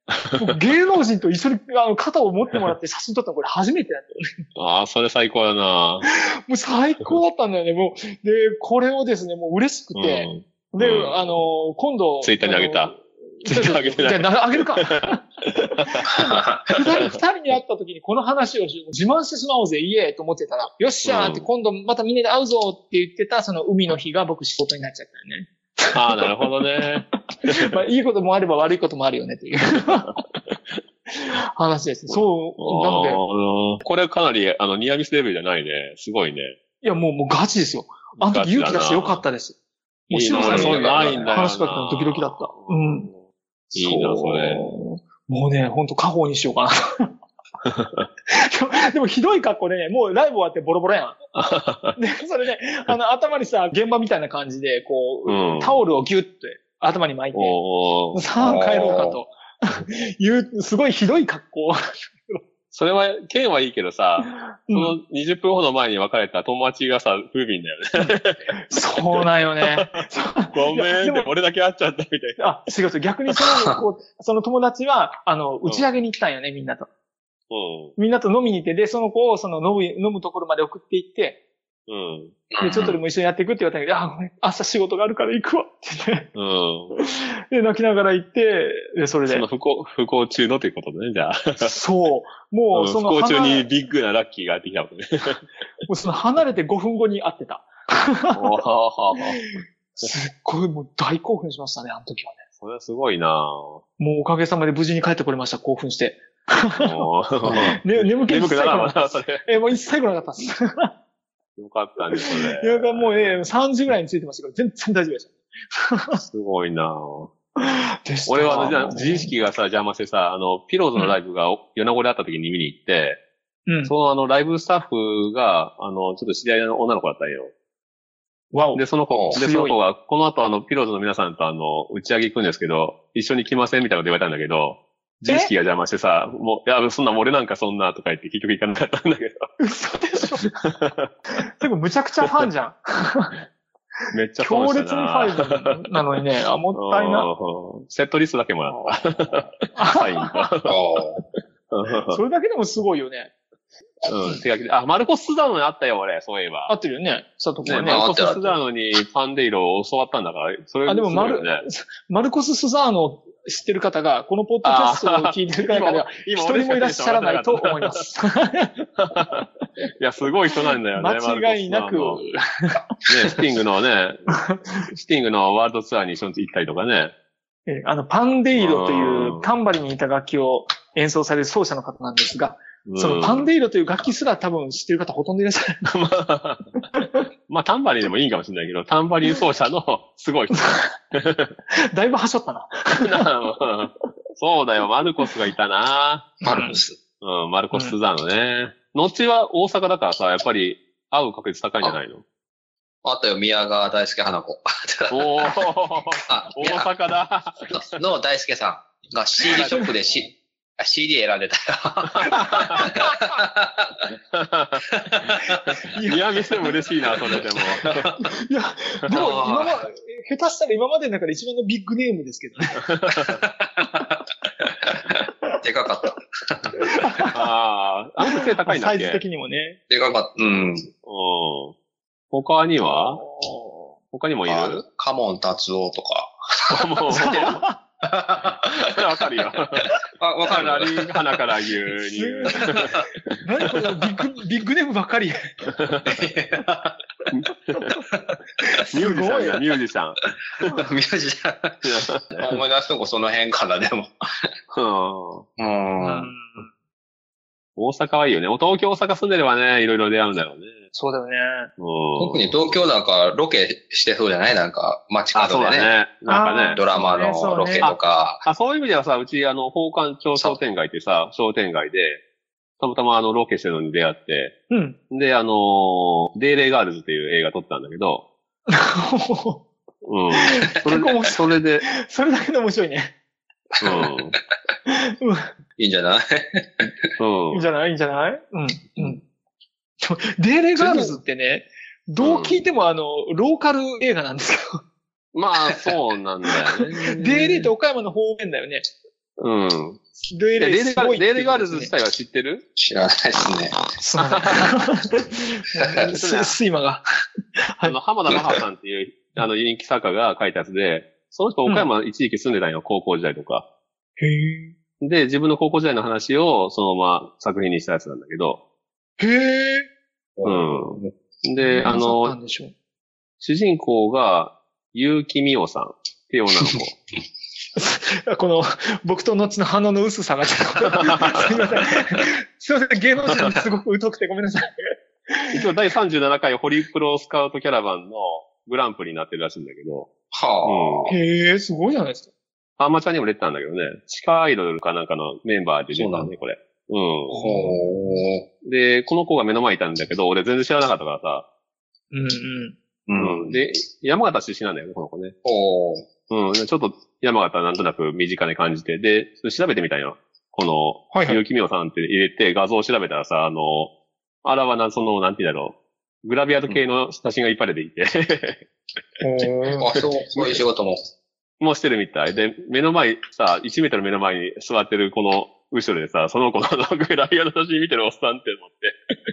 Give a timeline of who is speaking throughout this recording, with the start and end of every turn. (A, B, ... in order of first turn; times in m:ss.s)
0:00.1-0:00.4 A
0:00.3-0:04.3 B
0:04.6-0:06.0 A
0:06.1-0:30.2 B
0:09.9-0:11.4 A
0:12.2-0:16.1 A
0:21.0-0:21.5 A
0:25.9-0:27.7 A
0:31.1-0:33.2 B
0:32.1-0:36.6 A
0:36.8-0:39.6 B
0:38.2-0:39.2 A
0:40.1-0:43.1 B
0:40.1-0:43.2 A
0:40.3-0:41.4 C
0:43.7-0:44.6 A
0:43.7-0:47.1 B
0:47.6-0:48.0 A
0:48.3-0:51.2 B
0:51.4-0:52.0 A
0:52.0-0:57.6 B
0:55.2-0:55.8 A
0:57.3-0:58.2 A
0:58.1-1:01.8 B
0:58.4-0:59.2 C
1:02.7-1:08.5 A
1:04.3-1:04.9 B
1:08.0-1:11.3 B
1:09.1-1:12.4 A
1:12.4-1:16.9 B
1:17.5-1:18.0 A
1:18.0-1:21.4 B
1:21.9-1:22.4 A
1:22.5-1:23.0 C
1:22.6-1:26.3 B
1:26.3-1:27.0 A
1:27.0-1:29.4 B
1:29.3-1:31.8 A
1:31.6-1:33.6 B
1:32.7-1:35.4 A
1:35.9-1:38.5 B
1:38.3-1:39.4 A
1:40.0-1:42.4 B
1:42.6-1:43.8 A
1:44.0-1:50.9 B
1:46.8-1:49.6 A
1:51.6-1:53.4 A
1:52.1-1:56.2 B
1:56.3-1:57.3 A
1:57.6-1:59.3 B
1:58.3-2:03.2 A
2:03.7-2:03.9 B
2:03.8-2:07.5 A
2:08.5-2:08.8 B
2:08.7-2:19.5 A
2:09.1-2:09.4 C
2:09.3-2:09.8 B
2:19.6-2:20.5 B
2:20.6-2:21.1 A
2:21.4-2:23.4 B
2:24.1-2:25.8 A
2:24.4-2:27.3 B
2:26.7-2:30.7 A
2:29.7-2:30.4 B
2:30.6-2:31.2 C
2:31.7-2:32.2 A
2:32.1-2:33.3 B
2:34.1-2:36.7 A
2:36.7-2:38.0 B
2:37.6-2:41.6 A
2:37.8-2:38.6 C
2:40.9-2:48.9 B
2:44.6-2:48.0 A
2:49.0-2:49.4 A
2:50.0-2:52.2 A
2:51.0-2:52.8 B
2:53.1-2:54.3 A
2:54.9-2:57.1 A
2:57.7-3:05.8 B
2:58.6-2:59.5 A
3:02.8-3:03.5 A
3:05.8-3:06.6 A
3:06.9-3:07.2 B
3:07.5-3:11.5 A
3:10.6-3:10.8 B
3:11.9-3:13.2 B
3:13.0-3:16.4 A
3:16.4-3:17.0 C
3:16.5-3:16.8 B
3:17.2-3:22.2 A
3:23.0-3:25.3 C
3:25.1-3:27.8 A
3:26.3-3:26.9 C
3:27.7-3:34.0 C
3:29.5-3:29.9 A
3:32.2-3:32.8 A
3:32.7-3:33.1 B
3:34.3-3:34.9 A
3:35.0-3:35.6 C
3:35.9-3:36.4 B
3:36.0-3:38.1 A
3:37.3-3:38.1 C
3:38.2-3:42.8 B
3:39.1-3:39.8 C
3:42.9-3:43.4 A
3:43.3-3:46.8 C
3:46.8-3:47.3 B
3:47.3-3:49.2 A
3:48.2-3:49.8 B
3:49.9-3:50.9 C
3:51.0-3:51.7 A
3:52.3-3:53.2 A
3:53.0-3:53.9 B
3:54.1-3:54.8 A
3:54.5-3:56.8 C
3:56.7-3:57.6 A
3:57.1-3:57.8 B
3:58.0-3:58.9 C
3:58.8-3:59.9 A
4:00.2-4:01.1 C
4:00.5-4:03.4 A
4:02.0-4:05.4 B
4:05.7-4:06.1 A
4:06.0-4:07.0 C
4:07.3-4:07.9 A
4:08.8-4:09.6 B
4:08.9-4:10.7 A
4:10.7-4:14.1 C
4:11.8-4:12.6 A
4:14.7-4:15.4 A
4:15.6-4:16.3 C
4:16.0-4:16.7 B
4:17.8-4:20.8 A
4:20.9-4:21.7 B
4:21.8-4:22.6 A
4:22.2-4:25.9 C
4:25.3-4:26.8 A
4:26.3-4:27.9 B
4:26.7-4:28.4 C
4:27.8-4:32.2 A
4:32.8-4:34.5 A
4:34.7-4:35.0 B
4:35.1-4:38.2 A
4:38.7-4:39.6 B
4:40.0-4:41.8 A
4:40.3-4:43.1 B
4:43.8-4:44.3 C
4:43.8-4:44.3 A
4:44.9-4:45.5 B
4:45.8-4:47.0 C
4:47.2-4:47.6 A
4:47.5-4:49.2 B
4:50.0-4:54.8 B
4:52.2-4:52.6 A
4:55.3-4:57.7 A
4:57.2-4:58.9 B
4:59.4-5:00.0 A
5:00.3-5:01.9 B
5:00.6-5:02.6 A
5:02.8-5:03.8 C
5:04.0-5:07.0 B
5:05.8-5:06.1 C
5:06.1-5:06.6 A
5:07.8-5:13.6 A
5:14.2-5:14.7 B
5:15.0-5:18.6 A
5:19.2-5:19.9 B
5:20.4-5:21.1 C
5:20.4-5:22.3 A
5:21.6-5:22.7 B
5:23.4-5:27.0 A
5:27.8-5:35.6 B
5:35.5-5:40.1 A
5:40.3-5:41.1 C
5:40.6-5:41.1 A
5:41.1-5:42.3 B
5:42.8-5:47.5 A
5:45.9-5:46.3 C
5:47.3-5:47.8 B
5:47.4-5:48.4 C
5:48.6-5:51.4 A
5:52.1-5:52.8 B
5:53.1-5:53.6 C
5:53.2-5:55.3 A
5:55.4-5:56.1 C
5:56.3-6:03.9 A
6:01.1-6:01.4 B
6:04.4-6:08.6 A
6:09.2-6:09.9 B
6:09.8-6:11.0 C
6:11.6-6:18.9 A